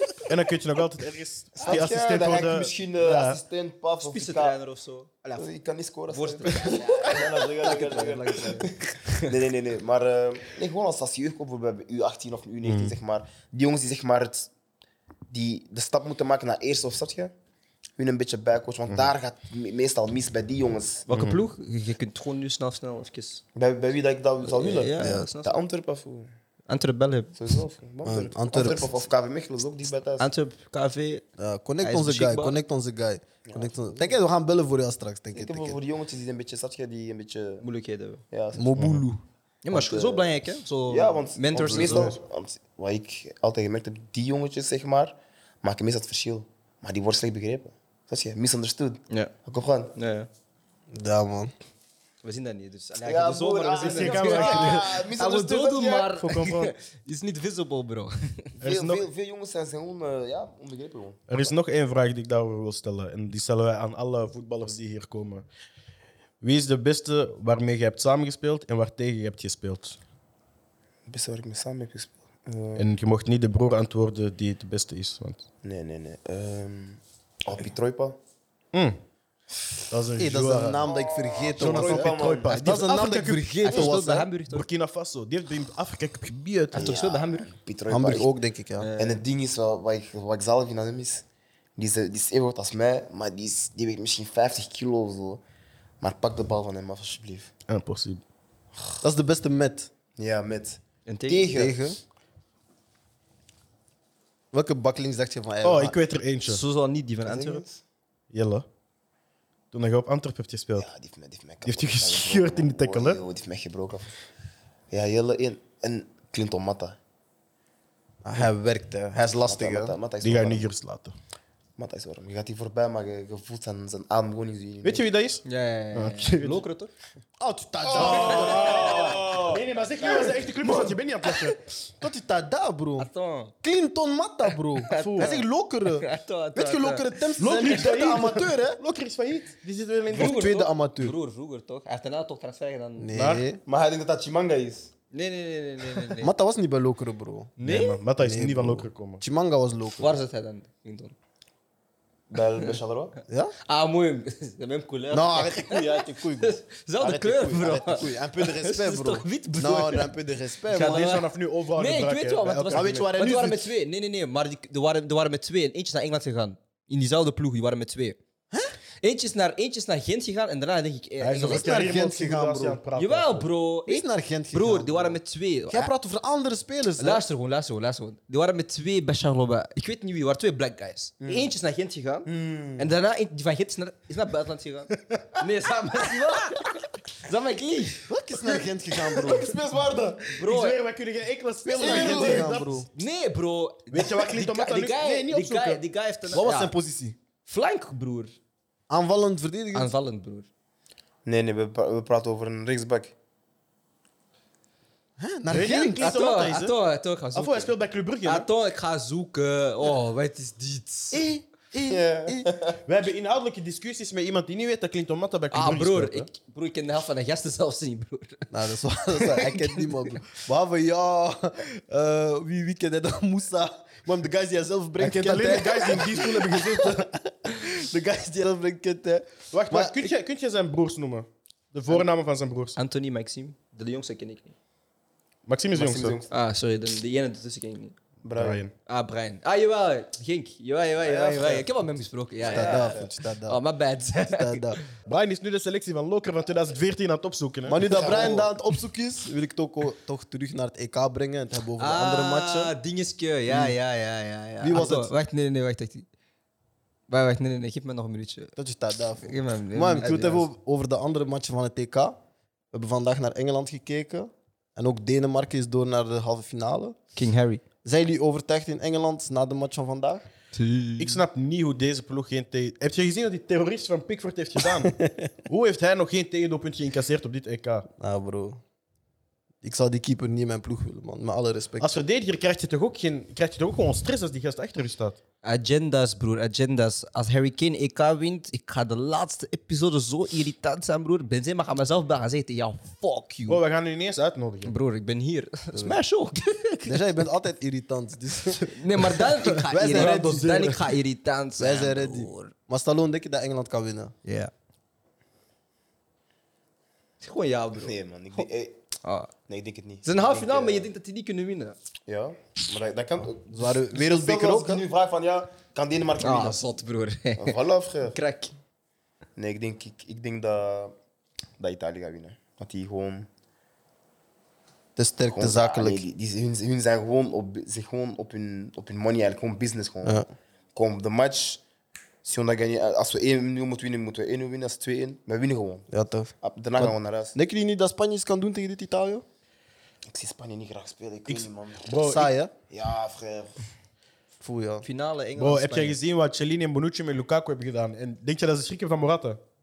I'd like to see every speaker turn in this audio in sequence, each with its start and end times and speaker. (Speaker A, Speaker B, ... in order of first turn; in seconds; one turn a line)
Speaker A: 0.3-3.4
Speaker B: 1.6-4.6
Speaker C: 4.0-5.5
Speaker B: 5.4-14.5
Speaker C: 6.1-9.3
Speaker A: 12.6-12.9
Speaker B: 15.3-17.3
Speaker B: 18.0-21.1
Speaker C: 21.1-23.4
Speaker A: 21.1-21.4
Speaker B: 23.6-26.3
Speaker C: 24.4-25.5
Speaker D: 25.0-25.3
Speaker C: 26.7-27.4
Speaker B: 27.4-30.3
Speaker D: 28.1-28.9
Speaker C: 30.2-31.3
Speaker D: 31.4-35.8
Speaker C: 31.8-32.6
Speaker B: 33.5-34.2
Speaker B: 35.3-37.7
Speaker C: 37.6-38.2
Speaker B: 38.3-38.8
Speaker D: 38.6-39.2
Speaker A: 38.8-39.0
Speaker C: 39.6-42.2
Speaker B: 39.7-40.3
Speaker B: 40.9-49.9
Speaker C: 50.0-50.3
Speaker D: 50.9-51.5
Speaker C: 52.2-58.5
Speaker B: 53.0-56.1
Speaker A: 53.8-54.9
Speaker A: 56.2-56.7
Speaker B: 58.6-61.3
Speaker A: 58.6-59.0
Speaker A: 61.3-65.5
Speaker A: 66.4-70.0
Speaker B: 71.1-72.9
Speaker A: 72.8-75.4
Speaker B: 75.6-78.2
Speaker A: 78.7-79.0
Speaker A: 79.9-80.9
Speaker D: 80.2-84.3
Speaker B: 80.9-82.6
Speaker A: 81.6-83.9
Speaker C: 83.6-84.7
Speaker A: 84.5-86.9
Speaker B: 86.7-88.3
Speaker C: 86.7-87.5
Speaker D: 87.9-88.9
Speaker C: 88.8-89.2
Speaker B: 89.0-91.2
Speaker B: 91.8-95.4
Speaker B: 96.0-97.5
Speaker A: 97.7-98.2
Speaker D: 99.0-99.9
Speaker B: 100.2-101.8
Speaker C: 101.1-101.5
Speaker D: 101.5-102.0
Speaker D: 104.5-106.0
Speaker A: 105.6-106.6
Speaker C: 106.5-107.6
Speaker B: 107.2-107.8
Speaker A: 108.3-108.7
Speaker A: 109.7-110.9
Speaker B: 110.8-114.1
Speaker A: 111.6-113.2
Speaker B: 114.9-117.0
Speaker D: 118.2-120.0
Speaker B: 119.4-120.7
Speaker A: 120.2-121.2
Speaker B: 121.8-125.0
Speaker A: 124.8-125.4
Speaker C: 125.5-126.9
Speaker A: 125.9-126.6
Speaker D: 127.4-129.1
Speaker B: 127.9-130.5
Speaker A: 127.9-131.6
Speaker C: 128.1-129.0
Speaker D: 132.0-133.1
Speaker C: 133.0-133.5
Speaker D: 133.6-138.8
Speaker C: 134.8-137.2
Speaker A: 134.9-135.3
Speaker A: 137.4-140.4
Speaker C: 140.1-143.2
Speaker D: 140.1-141.2
Speaker D: 143.0-143.6
Speaker A: 143.2-143.5
Speaker B: 143.7-144.9
Speaker C: 145.1-146.3
Speaker D: 146.2-147.5
Speaker C: 147.6-148.0
Speaker A: 147.6-149.2
Speaker D: 148.2-150.2
Speaker C: 150.0-151.2
Speaker B: 152.3-153.2
Speaker D: 153.3-153.5
Speaker C: 153.7-160.1
Speaker D: 155.1-161.1
Speaker C: 160.7-168.2
Speaker A: 160.7-163.1
Speaker D: 162.7-163.7
Speaker C: 169.0-171.9
Speaker A: 171.2-173.5
Speaker D: 171.4-172.8
Speaker C: 173.0-175.9
Speaker D: 173.9-177.2
Speaker C: 177.0-188.0
Speaker B: 181.2-181.5
Speaker B: 182.3-182.9
Speaker D: 188.1-189.5
Speaker B: 189.2-190.2
Speaker A: 189.3-192.9
Speaker C: 190.4-190.8
Speaker D: 191.7-192.9
Speaker B: 191.7-192.6
Speaker C: 192.9-196.7
Speaker A: 193.9-195.8
Speaker D: 196.3-197.2
Speaker C: 197.5-198.3
Speaker D: 198.9-199.9
Speaker C: 199.7-200.5
Speaker B: 201.2-203.2
Speaker D: 205.2-206.0
Speaker A: 205.5-206.8
Speaker C: 206.0-211.2
Speaker A: 207.3-208.5
Speaker D: 211.1-212.5
Speaker B: 211.9-212.8
Speaker A: 212.9-216.3
Speaker C: 215.5-218.5
Speaker D: 218.5-230.1
Speaker C: 219.1-220.2
Speaker A: 225.0-227.1
Speaker A: 229.5-232.8
Speaker C: 232.8-234.5
Speaker A: 235.5-236.2
Speaker B: 235.7-236.3
Speaker C: 236.3-238.0
Speaker B: 238.2-238.7
Speaker A: 238.4-238.7
Speaker C: 238.9-244.9
Speaker B: 242.4-243.1
Speaker D: 242.5-243.6
Speaker D: 244.3-244.8
Speaker A: 245.1-247.8
Speaker D: 247.7-252.7
Speaker B: 247.9-248.5
Speaker C: 247.9-248.5
Speaker C: 251.8-256.1
Speaker D: 253.5-253.8
Speaker D: 254.6-255.1
Speaker C: 257.1-258.5
Speaker D: 258.6-262.2
Speaker C: 259.2-260.5
Speaker D: 262.7-267.0
Speaker C: 267.1-267.6
Speaker D: 267.8-270.3
Speaker C: 270.6-271.2
Speaker A: 271.0-274.9
Speaker D: 274.9-275.3
Speaker A: 275.5-277.9
Speaker D: 278.0-278.6
Speaker D: 279.6-282.0
Speaker A: 281.8-285.2
Speaker C: 285.4-293.6
Speaker A: 293.5-294.7
Speaker C: 294.6-297.0
Speaker D: 296.9-300.9
Speaker C: 298.6-302.5
Speaker D: 301.6-304.2
Speaker C: 304.3-304.5
Speaker C: 307.2-308.4
Speaker B: 307.8-308.8
Speaker C: 309.0-309.3
Speaker B: 309.5-310.9
Speaker C: 310.1-311.8
Speaker B: 312.1-316.6
Speaker D: 313.5-314.8
Speaker C: 316.2-317.6
Speaker B: 317.4-318.2
Speaker C: 318.1-318.5
Speaker B: 319.4-320.9
Speaker B: 321.6-323.3
Speaker D: 325.0-326.0
Speaker B: 325.3-330.2
Speaker B: 330.7-331.6
Speaker B: 332.2-335.9
Speaker D: 335.9-339.2
Speaker B: 336.4-337.4
Speaker B: 340.1-342.0
Speaker A: 341.3-342.3
Speaker D: 342.0-342.5
Speaker B: 342.7-343.6
Speaker D: 344.4-344.9
Speaker C: 344.8-346.0
Speaker A: 345.4-349.4